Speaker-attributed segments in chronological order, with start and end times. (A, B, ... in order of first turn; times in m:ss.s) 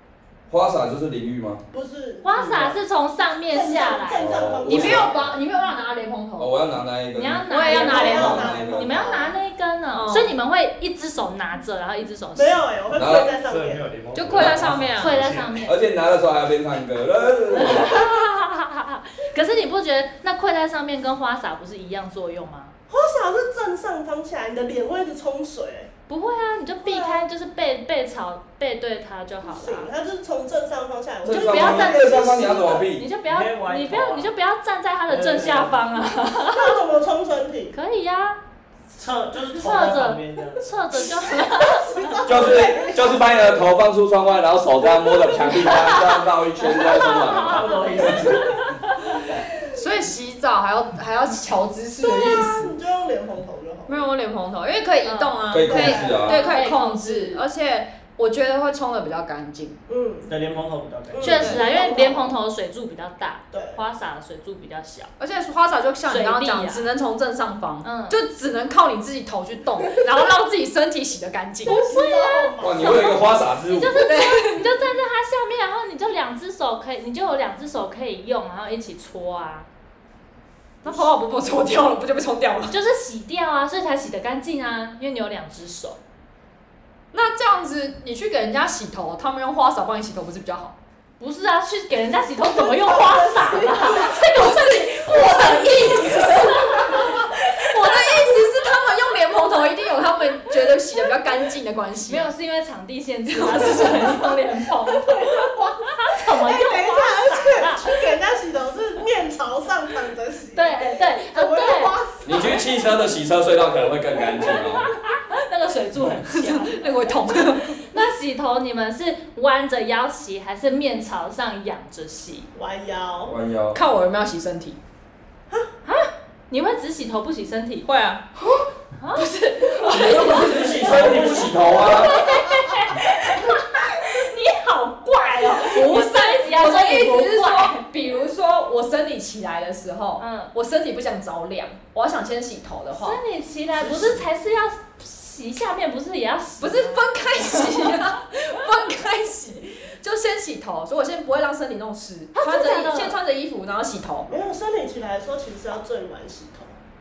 0:00.5-0:01.6 A
0:01.7-0:02.8 B
0:02.2-0:05.0 C
0:03.5-0:05.2 B
0:04.2-0:05.3 A
0:04.6-0:06.5 D
0:06.4-0:09.1 A
0:07.1-0:12.6 C
0:07.5-0:08.5 D
0:07.7-0:09.4 B
0:09.9-0:10.3 D
0:12.3-0:13.9 B
0:12.9-0:13.3 A
0:13.1-0:15.6 E
0:14.1-0:15.2 D
0:15.0-0:15.8 C
0:15.6-0:18.0 A
0:17.5-0:18.0 B
0:17.5-0:22.7 C
0:22.9-0:25.9 B
0:26.1-0:29.9 C
0:26.8-0:27.2 B
0:29.4-0:32.9 B
0:31.2-0:33.1 A
0:31.2-0:32.2 C
0:33.0-0:36.8 C
0:33.2-0:34.3 F
0:35.1-0:35.8 F
0:36.5-0:37.7 B
0:37.7-0:38.4 C
0:38.9-0:40.7 F
0:39.5-0:42.2 C
0:41.3-0:43.5 B
0:42.2-0:48.4 A
0:45.5-0:49.1 C
0:47.1-0:48.6 F
0:49.7-0:52.7 D
0:52.0-0:54.0 B
0:53.9-0:59.8 D
0:55.0-0:55.4 C
0:55.5-0:56.4 A
0:55.6-0:56.3 B
0:56.2-0:57.4 C
0:59.9-1:00.3 B
1:00.3-1:01.6 F
1:01.1-1:02.3 B
1:01.2-1:05.1 C
1:03.5-1:03.8 B
1:05.2-1:11.8 D
1:06.0-1:06.9 C
1:07.8-1:08.2 C
1:11.6-1:13.4 B
1:11.6-1:19.7 C
1:12.6-1:14.1 A
1:14.0-1:14.6 D
1:20.8-1:22.8 D
1:22.7-1:26.0 C
1:27.1-1:30.8 D
1:31.2-1:38.4 C
1:32.5-1:33.7 B
1:33.9-1:42.3 D
1:42.1-1:48.1 C
1:43.3-1:44.2 D
1:45.0-1:52.7 B
1:50.5-1:52.0 C
1:52.2-1:54.9 A
1:54.6-2:02.5 C
1:56.3-1:57.8 D
2:02.5-2:03.3 B
2:03.2-2:03.8 A
2:03.7-2:04.8 D
2:05.8-2:07.9 C
2:07.8-2:08.2 D
2:09.0-2:10.7 C
2:09.1-2:11.0 D
2:09.9-2:12.2 A
2:10.5-2:12.0 F
2:11.8-2:17.8 C
2:15.6-2:23.2 D
2:20.2-2:20.5 C
2:22.9-2:27.9 C
2:26.6-2:34.3 D
2:32.3-2:33.2 C
2:34.3-2:36.7 B